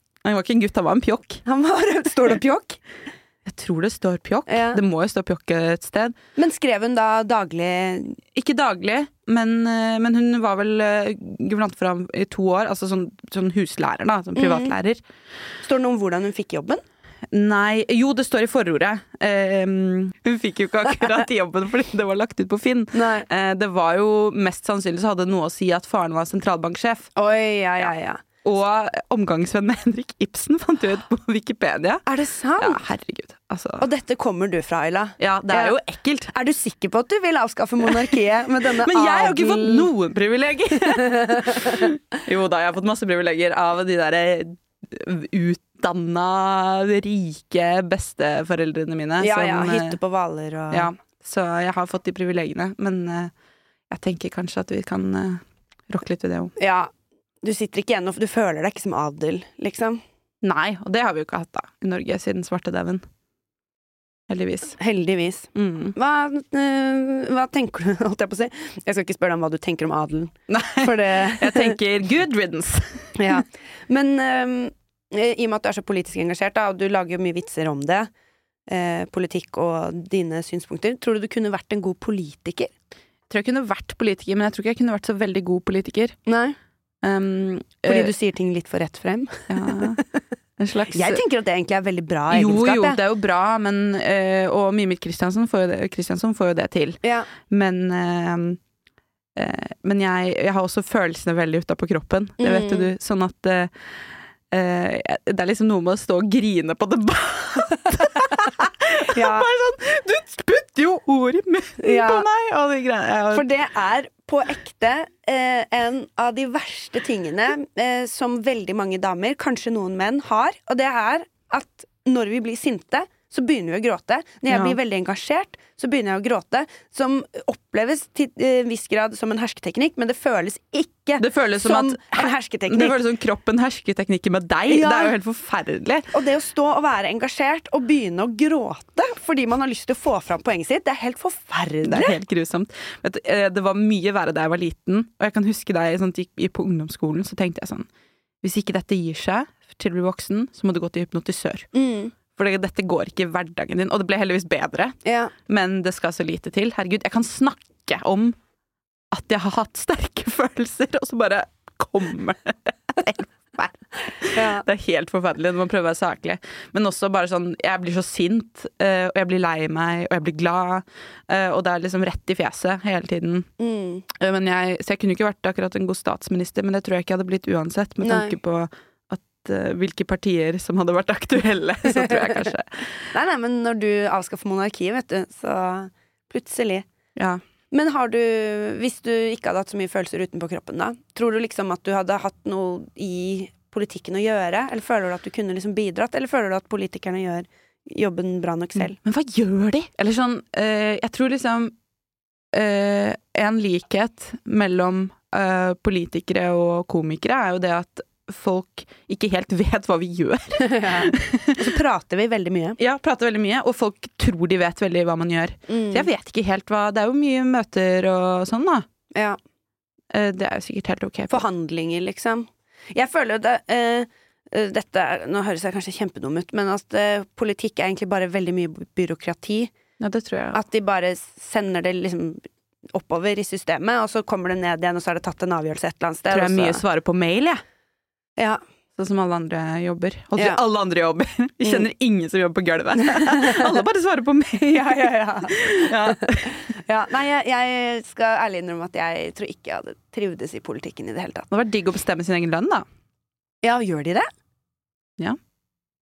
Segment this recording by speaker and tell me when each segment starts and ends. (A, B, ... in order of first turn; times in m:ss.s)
0:00.2-0:01.4 A
0:01.4-0:02.8 B
0:03.5-0:06.2 A
0:04.5-0:04.8 B
0:06.4-0:08.2 B
0:08.3-0:15.0 A
0:14.4-0:14.8 B
0:15.6-0:16.8 B
0:17.3-0:27.1 A
0:22.9-0:23.3 B
0:27.2-0:28.2 B
0:28.4-0:32.1 A
0:32.1-0:32.8 B
0:32.6-0:33.9 A
0:33.8-0:35.8 B
0:35.2-0:36.3 A
0:36.3-0:39.9 B
0:38.7-0:50.0 A
0:40.9-0:41.9 B
0:49.2-0:50.9 B
0:50.7-0:53.3 A
0:53.9-0:56.5 A
0:56.6-0:56.9 B
0:57.4-1:00.0 B
1:00.4-1:03.0 A
1:04.3-1:04.7 A
1:04.8-1:11.8 B
1:05.6-1:06.0 A
1:10.5-1:13.2 A
1:13.2-1:18.1 B
1:18.7-1:22.7 B
1:23.3-1:26.2 A
1:26.3-1:26.6 B
1:27.0-1:28.1 A
1:27.9-1:30.2 B
1:29.5-1:30.0 A
1:30.6-1:31.2 A
1:30.9-1:33.0 B
1:32.3-1:38.6 A
1:37.0-1:37.3 B
1:39.4-1:53.5 A
1:42.4-1:42.9 B
1:49.1-1:49.5 B
1:51.8-1:52.3 B
1:53.3-2:13.0 B
2:04.5-2:04.8 A
2:11.2-2:16.1 A
2:14.7-2:15.2 B
2:16.1-2:22.2 B
2:21.8-2:27.9 A
2:28.4-2:31.7 A
2:31.7-2:32.1 B
2:32.3-2:38.4 A
2:35.0-2:35.3 B
2:39.1-2:53.5 A
2:44.3-2:44.6 B
2:53.6-2:54.1 B
2:54.1-3:03.1 A
2:58.0-2:58.4 B
3:01.9-3:02.5 B
3:03.1-3:06.9 B
3:07.2-3:07.4 A
3:07.7-3:19.0 B
3:18.8-3:21.8 A
3:22.5-3:31.8 A
3:30.6-3:32.8 B
3:32.8-3:38.9 A
3:35.7-3:36.1 B
3:39.1-3:39.4 B
3:40.1-3:41.4 A
3:41.3-3:49.7 B
3:50.0-3:50.6 A
3:50.5-3:52.4 B
3:52.9-3:56.8 B
3:56.3-3:57.6 A
3:59.0-4:06.6 A
4:03.0-4:03.7 B
4:04.6-4:11.5 B
4:11.5-4:12.9 A
4:13.6-4:14.3 B